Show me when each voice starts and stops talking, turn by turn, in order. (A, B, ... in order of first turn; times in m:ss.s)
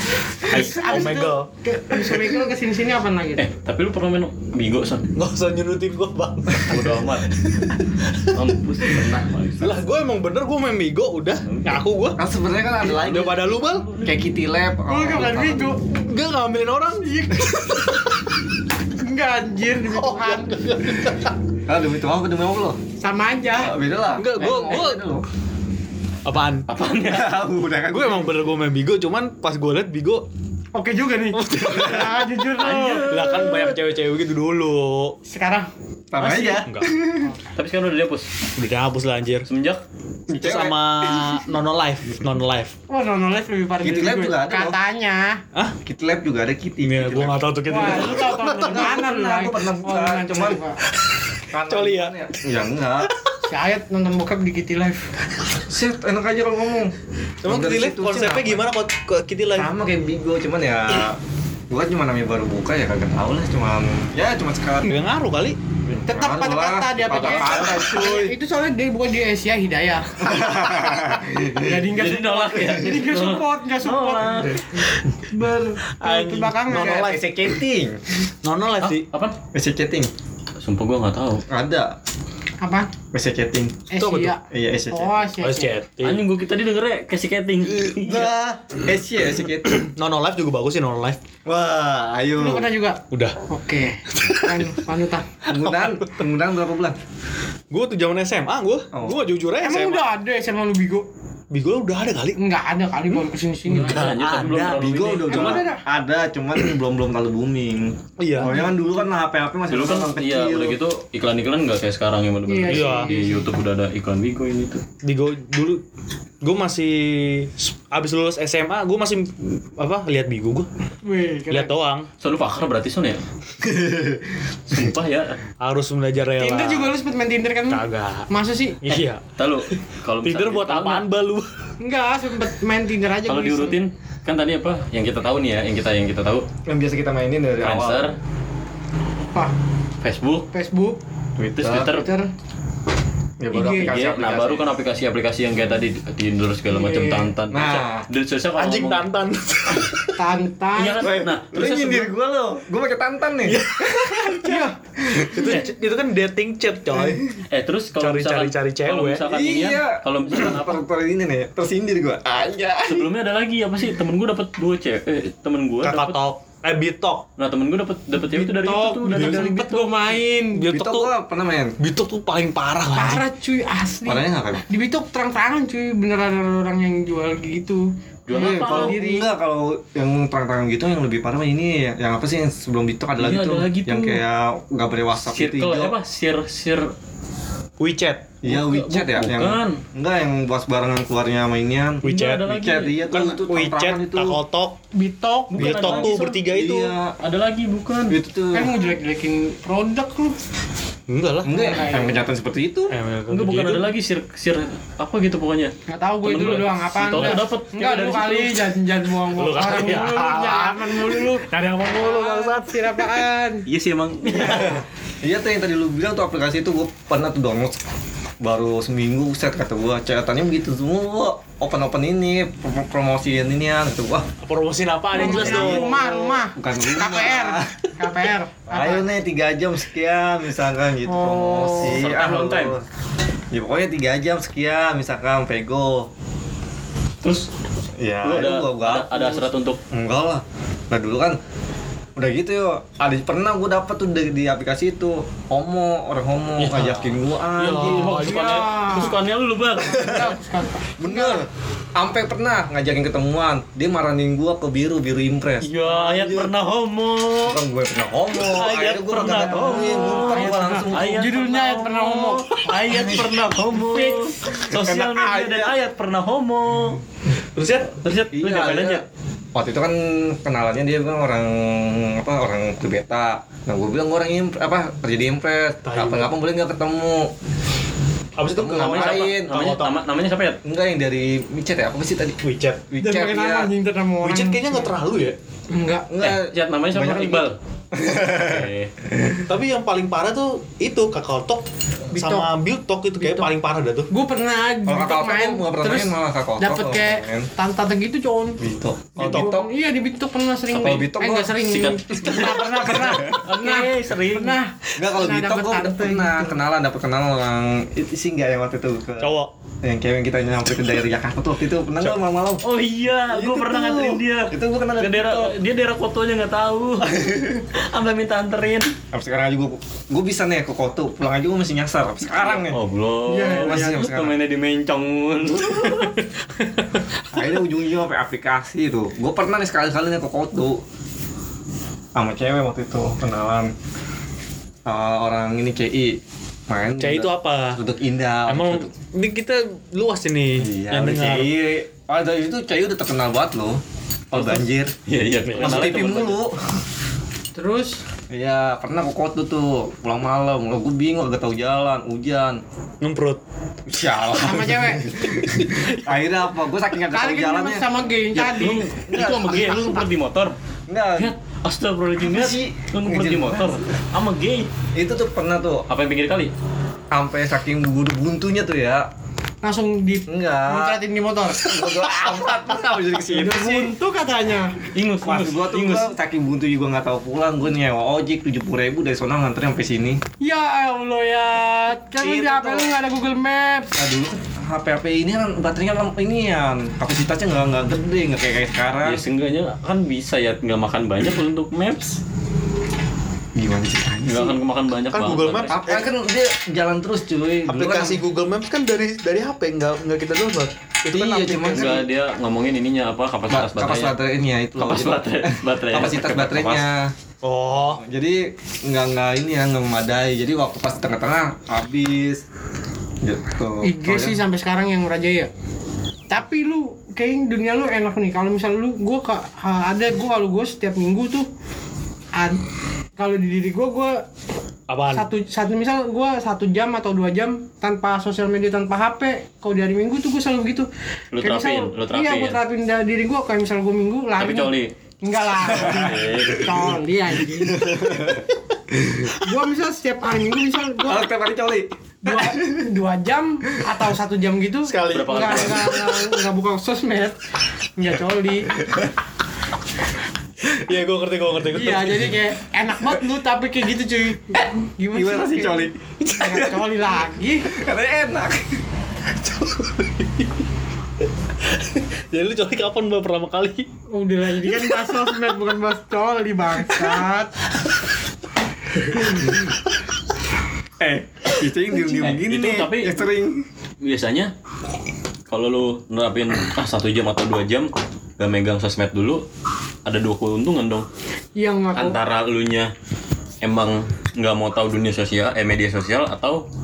0:00.4-0:01.1 A
0:00.4-0:03.4 B
0:00.5-0:01.5 C
0:03.4-0:05.1 D
0:05.1-0:08.4 C
0:06.6-0:07.3 D
0:08.3-0:09.8 D
0:09.6-0:12.2 C
0:11.5-0:11.8 D
0:12.2-0:15.7 A
0:12.8-0:13.9 C
0:13.7-0:14.0 D
0:14.9-0:15.8 B
0:15.9-0:17.8 C
0:17.0-0:17.8 B
0:19.0-0:20.7 B
0:19.9-0:21.4 C
0:21.7-0:22.8 A
0:23.0-0:23.7 B
0:23.6-0:25.2 A
0:24.2-0:25.0 C
0:26.2-0:26.7 C
0:26.7-0:27.4 D
0:27.0-0:28.4 A
0:27.9-0:30.2 C
0:30.7-0:33.1 B
0:31.3-0:32.1 C
0:31.6-0:32.1 A
0:32.6-0:33.8 D
0:33.1-0:35.2 C
0:35.2-0:36.6 B
0:36.1-0:37.4 A
0:36.6-0:36.9 C
0:37.5-0:38.3 D
0:38.6-0:39.5 C
0:39.4-0:39.8 D
0:40.3-0:41.4 A
0:40.4-0:42.7 C
0:42.9-0:45.4 B
0:43.8-0:44.8 A
0:45.8-0:50.6 A
0:46.8-0:49.0 C
0:47.7-0:50.8 B
0:51.0-0:52.4 C
0:51.5-0:53.1 A
0:53.0-0:53.4 C
0:53.4-0:55.1 B
0:55.5-0:58.6 A
0:57.4-0:59.7 C
0:59.5-1:01.2 A
1:01.7-1:04.9 A
1:04.8-1:05.6 C
1:05.9-1:08.3 A
1:06.1-1:17.0 B
1:07.1-1:07.8 D
1:10.2-1:11.8 A
1:11.9-1:14.7 D
1:16.0-1:17.3 C
1:16.7-1:18.0 A
1:18.4-1:19.0 C
1:18.8-1:19.4 D
1:19.5-1:20.1 A
1:20.6-1:21.4 D
1:21.5-1:21.9 A
1:22.6-1:22.9 B
1:23.1-1:23.9 A
1:23.9-1:25.7 B
1:24.0-1:24.3 C
1:24.5-1:25.1 A
1:25.4-1:26.2 C
1:26.0-1:28.3 D
1:28.0-1:29.8 A
1:29.7-1:31.2 C
1:31.4-1:32.7 A
1:32.4-1:35.3 B
1:33.1-1:33.4 C
1:34.1-1:34.7 C
1:35.4-1:37.0 A
1:35.5-1:36.3 C
1:37.7-1:40.1 C
1:38.9-1:39.2 A
1:39.6-1:41.0 B
1:41.5-1:42.4 C
1:42.4-1:44.1 B
1:43.6-1:45.6 C
1:43.7-1:45.5 D
1:45.2-1:50.8 A
1:45.3-1:45.8 B
1:48.2-1:48.5 C
1:48.4-1:48.7 B
1:49.7-1:54.8 D
1:52.5-1:53.4 B
1:52.7-1:53.1 C
1:55.0-1:55.8 C
1:56.4-2:00.7 C
2:01.0-2:01.7 B
2:01.5-2:02.1 C
2:02.2-2:03.2 D
2:03.6-2:04.4 A
2:04.7-2:05.4 D
2:05.6-2:07.0 C
2:06.4-2:09.0 B
2:07.7-2:08.3 C
2:08.8-2:11.5 C
2:09.4-2:11.0 D
2:11.8-2:13.8 B
2:13.3-2:16.4 D
2:16.7-2:18.1 A
2:17.6-2:18.1 D
2:20.0-2:20.5 D
2:20.5-2:21.0 B
2:21.4-2:22.1 D
2:21.6-2:21.9 A
2:21.8-2:22.3 B
2:23.4-2:24.7 A
2:23.5-2:24.0 B
2:23.5-2:29.1 D
2:26.7-2:27.3 B
2:27.5-2:28.1 A
2:28.6-2:30.2 C
2:30.2-2:31.1 B
2:30.7-2:32.1 D
2:31.0-2:35.6 A
2:33.4-2:34.7 C
2:34.4-2:34.7 B
2:35.2-2:37.2 C
2:36.9-2:37.3 A
2:37.5-2:40.8 D
2:38.0-2:39.2 C
2:39.2-2:43.1 A
2:42.8-2:46.2 D
2:45.8-2:47.2 C
2:47.4-2:49.9 D
2:48.2-2:50.7 B
2:49.1-2:49.5 C
2:50.5-2:51.1 C
2:50.7-2:51.8 A
2:51.8-2:53.2 C
2:52.9-2:59.3 B
2:54.0-2:54.6 A
2:58.3-2:59.0 D
2:58.3-3:05.9 A
3:03.2-3:04.2 D
3:05.2-3:06.9 D
3:07.8-3:08.3 C
3:08.4-3:14.4 A
3:08.4-3:09.8 D
3:12.0-3:14.8 C
3:12.0-3:13.2 D
3:14.9-3:15.7 B
3:15.5-3:16.4 D
3:15.5-3:17.0 C
3:15.7-3:17.1 A
3:17.2-3:18.2 D
3:18.1-3:18.8 A
3:18.5-3:20.4 B
3:21.1-3:21.6 C
3:21.4-3:22.9 A
3:21.5-3:22.2 B
3:22.9-3:23.9 C
3:23.3-3:28.6 D
3:25.9-3:33.6 B
3:29.3-3:33.2 C
3:33.6-3:34.8 D
3:34.2-3:37.8 A
3:38.4-3:44.3 A
3:44.4-3:45.8 C
3:45.1-3:47.9 A
3:45.1-3:49.1 B
3:48.7-3:52.8 A
3:51.0-3:52.0 B
3:51.8-3:52.7 D
3:53.5-3:56.1 A
3:57.2-3:57.5 D
3:58.0-4:01.4 A
3:58.2-3:59.8 D
4:02.2-4:08.3 A
4:06.6-4:08.4 C
4:07.6-4:10.1 D
4:08.1-4:09.2 B
4:09.8-4:11.4 B
4:09.9-4:10.4 A
4:11.0-4:16.5 A
4:15.6-4:17.6 D
4:17.4-4:21.2 A
4:18.4-4:20.2 C
4:19.2-4:27.0 D
4:19.4-4:22.5 B
4:22.8-4:23.3 A
4:23.8-4:24.4 B
4:24.4-4:25.8 A
4:27.5-4:27.9 C
4:27.9-4:29.0 D
4:28.3-4:29.0 A
4:29.5-4:37.3 A
4:35.8-4:36.3 C
4:38.4-4:39.9 C
4:38.5-4:39.6 A
4:38.9-4:40.6 D
4:40.6-4:43.7 A
4:42.4-4:42.8 C
4:43.0-4:44.9 B
4:44.2-4:45.4 C
4:45.7-4:46.1 B
4:46.1-4:49.4 A
4:46.2-4:47.6 D
4:48.3-4:48.9 D
4:49.5-4:54.1 C
4:52.1-4:52.5 B
4:53.2-4:53.5 B
4:54.1-4:58.6 B
4:54.9-4:57.5 A
4:58.6-4:59.7 A
4:59.2-5:06.6 B
4:59.2-4:59.5 C
5:00.7-5:03.4 A
5:00.8-5:01.1 D
5:01.6-5:02.6 D
5:03.3-5:04.6 D
5:05.0-5:12.6 A
5:09.2-5:09.5 C
5:12.6-5:17.2 D
5:13.3-5:15.5 A
5:17.1-5:17.6 A
5:17.7-5:18.9 D
5:19.1-5:22.8 A
5:22.4-5:26.2 D
5:23.3-5:24.1 B
5:23.4-5:24.3 A
5:26.6-5:27.5 C
5:27.3-5:30.8 A
5:32.1-5:33.7 A
5:34.8-5:38.9 A
5:37.0-5:37.8 C
5:38.5-5:41.5 C
5:40.6-5:44.9 A
5:44.4-5:46.4 D
5:45.4-5:46.0 C
5:45.6-5:46.6 A
5:47.5-5:48.0 B
5:48.3-5:52.6 A
5:53.0-5:54.1 C
5:53.9-5:57.8 A
5:54.4-5:55.1 B
5:55.4-5:55.8 C
5:57.1-5:58.8 B
5:58.4-6:00.0 A
5:58.4-6:00.5 D
6:00.9-6:01.3 A
6:01.2-6:04.7 D
6:02.2-6:03.9 A
6:04.9-6:05.8 A
6:05.9-6:06.5 D
6:07.1-6:09.1 A
6:09.6-6:11.7 B
6:10.3-6:11.0 A
6:11.6-6:13.9 A
6:13.3-6:14.8 B
6:14.9-6:16.1 D
6:15.2-6:20.2 A
6:20.4-6:23.9 B
6:22.2-6:22.8 A
6:24.0-6:29.2 A
6:29.0-6:32.2 D
6:33.5-6:34.6 A
6:34.2-6:35.7 D
6:35.1-6:36.0 C
6:35.7-6:38.2 A
6:37.6-6:42.0 C
6:41.1-6:42.1 A
6:41.7-6:44.2 D
6:43.5-6:47.1 A
6:44.8-6:46.8 D
6:47.4-6:48.0 C
6:47.7-6:52.4 A
6:53.2-6:54.4 A
6:53.8-6:55.5 B
6:56.3-7:01.5 B
7:02.3-7:02.6 B
7:03.2-7:04.2 B
7:04.9-7:05.3 C
7:05.1-7:17.9 B
7:11.3-7:12.6 D
7:14.4-7:14.9 D
7:15.6-7:16.9 A
7:15.7-7:16.8 D
7:17.5-7:19.4 A
7:19.3-7:21.3 B
7:21.0-7:22.8 A
7:22.2-7:27.4 B
7:24.8-7:26.0 C
7:25.1-7:25.9 D
7:28.0-7:28.7 B
7:28.8-7:29.1 A
7:30.7-7:32.4 C
7:31.7-7:37.7 B
7:35.1-7:36.8 A
7:37.7-7:38.8 A
7:39.4-7:40.6 C
7:41.6-7:43.9 C
7:44.1-7:47.5 B
7:49.1-7:49.7 C
7:51.0-7:53.6 A
7:52.0-7:52.3 B
7:52.2-7:53.1 D
7:54.0-7:54.5 D
7:55.5-7:59.4 D
8:00.0-8:01.1 D
8:01.6-8:02.2 B
8:01.9-8:02.9 D
8:03.6-8:06.6 D